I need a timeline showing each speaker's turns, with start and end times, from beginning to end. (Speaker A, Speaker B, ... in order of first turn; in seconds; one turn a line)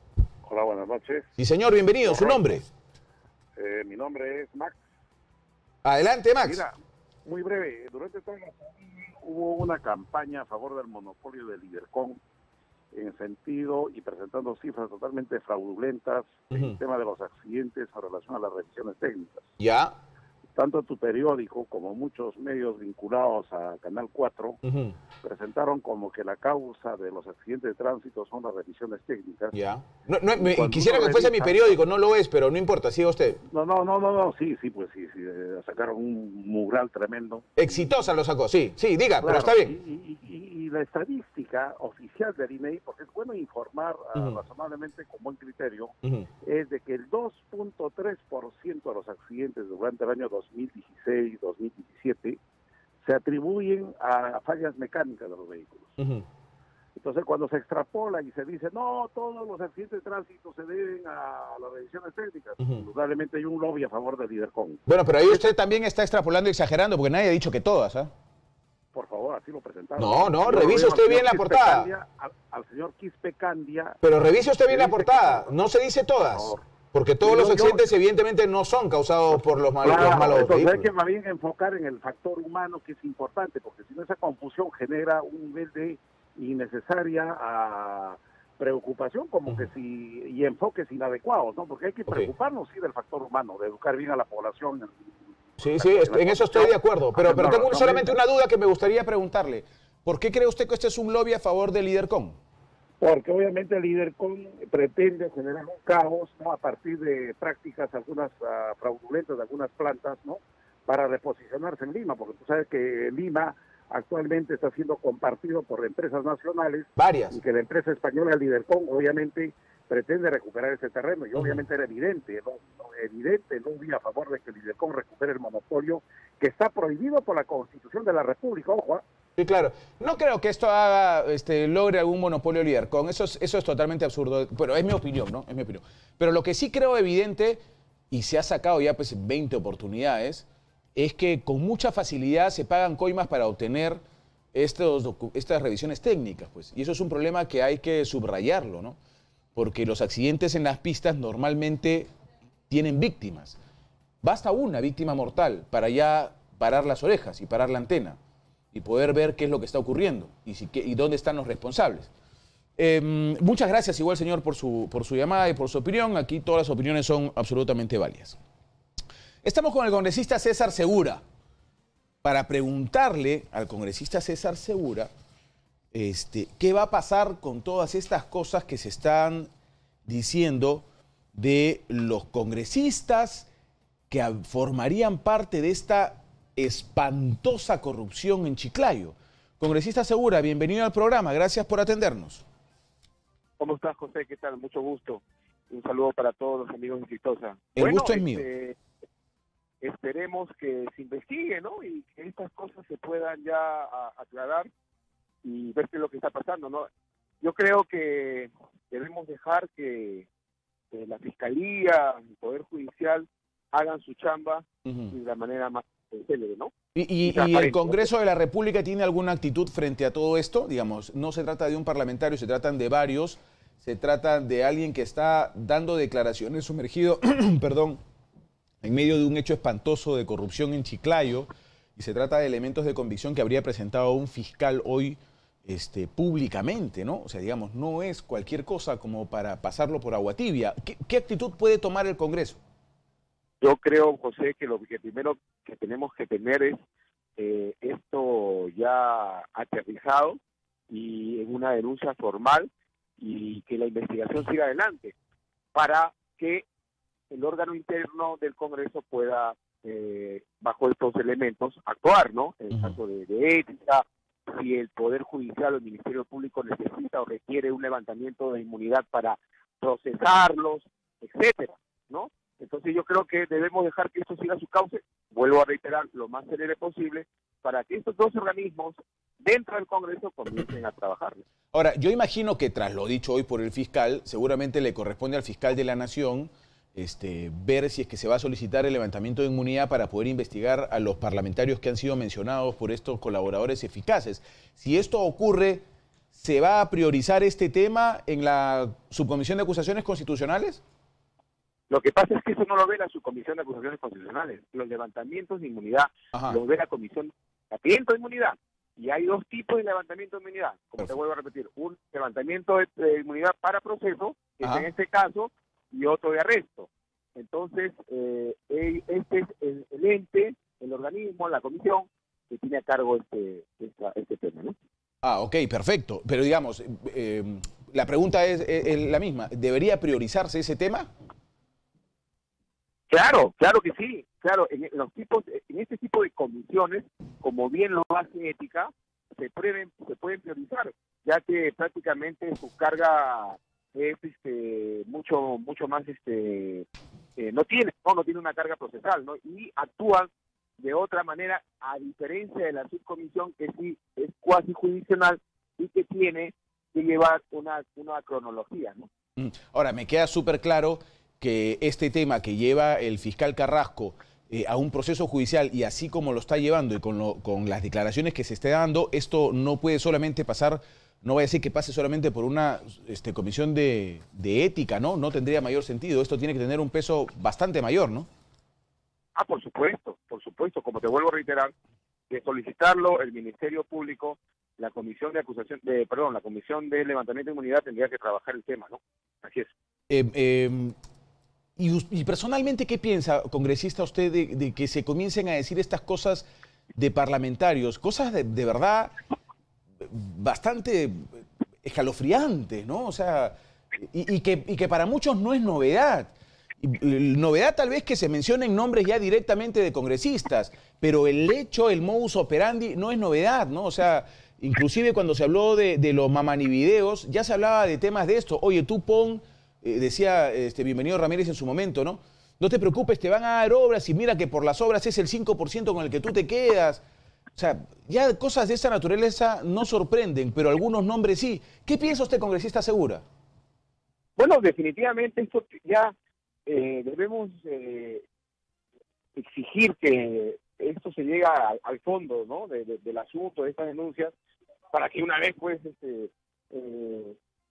Speaker A: 0.4-1.3
Speaker B: 1.4-2.7
Speaker A: 2.1-2.4
Speaker A: 3.6-4.8
Speaker B: 5.8-6.6
Speaker A: 6.4-6.7
Speaker A: 7.2-12.2
Speaker A: 12.9-19.5
Speaker B: 19.6-20.0
Speaker A: 20.6-24.6
Speaker B: 24.6-25.0
Speaker A: 25.2-29.6
Speaker B: 29.5-33.4
Speaker A: 30.4-31.8
Speaker A: 33.5-37.9
Speaker B: 37.6-39.8
Speaker A: 39.2-52.4
Speaker A: 53.0-56.0
Speaker B: 56.0-56.2
Speaker A: 57.0-64.8
Speaker B: 64.9-68.1
Speaker A: 68.9-74.0
Speaker B: 70.0-71.9
Speaker B: 74.0-80.9
Speaker A: 74.7-75.5
Speaker A: 76.3-76.6
Speaker A: 77.2-77.8
Speaker A: 79.8-95.2
Speaker B: 95.6-102.4
Speaker A: 95.7-98.2
Speaker A: 103.0-129.0
Speaker B: 117.0-117.4
Speaker B: 121.4-121.6
Speaker B: 129.4-144.0
Speaker B: 144.5-149.0
Speaker B: 149.6-152.1
Speaker B: 152.7-153.6
Speaker B: 154.2-158.2
Speaker B: 158.7-162.1
Speaker B: 162.8-168.4
Speaker B: 169.4-171.2
Speaker B: 172.2-175.1
Speaker B: 175.9-179.5
Speaker B: 180.1-183.5
Speaker B: 184.1-192.4
Speaker C: 193.6-198.8
Speaker B: 197.8-198.4
Speaker C: 199.8-204.7
Speaker C: 205.4-206.9
Speaker C: 207.4-210.3
Speaker C: 210.9-216.7
Speaker B: 214.8-215.1
Speaker B: 216.9-228.0
Speaker C: 217.3-218.1
Speaker B: 228.8-242.6
Speaker C: 243.6-246.8
Speaker C: 247.4-250.4
Speaker C: 250.9-252.7
Speaker C: 253.2-255.2
Speaker C: 255.7-256.6
Speaker C: 257.3-281.4
Speaker B: 281.7-300.8
Speaker C: 301.9-324.8
Speaker B: 306.3-306.6
Speaker B: 314.6-314.9
Speaker B: 325.2-331.1
Speaker C: 333.1-346.9
Speaker C: 347.4-359.1
Speaker B: 359.4-378.3
Speaker C: 379.4-381.7
Speaker C: 382.3-389.7
Speaker B: 390.1-391.0
Speaker B: 391.8-399.1
Speaker B: 400.0-427.0
Speaker B: 427.6-433.2
Speaker C: 434.4-436.1
Speaker C: 436.7-438.2
Speaker C: 439.4-444.3
Speaker C: 444.9-447.4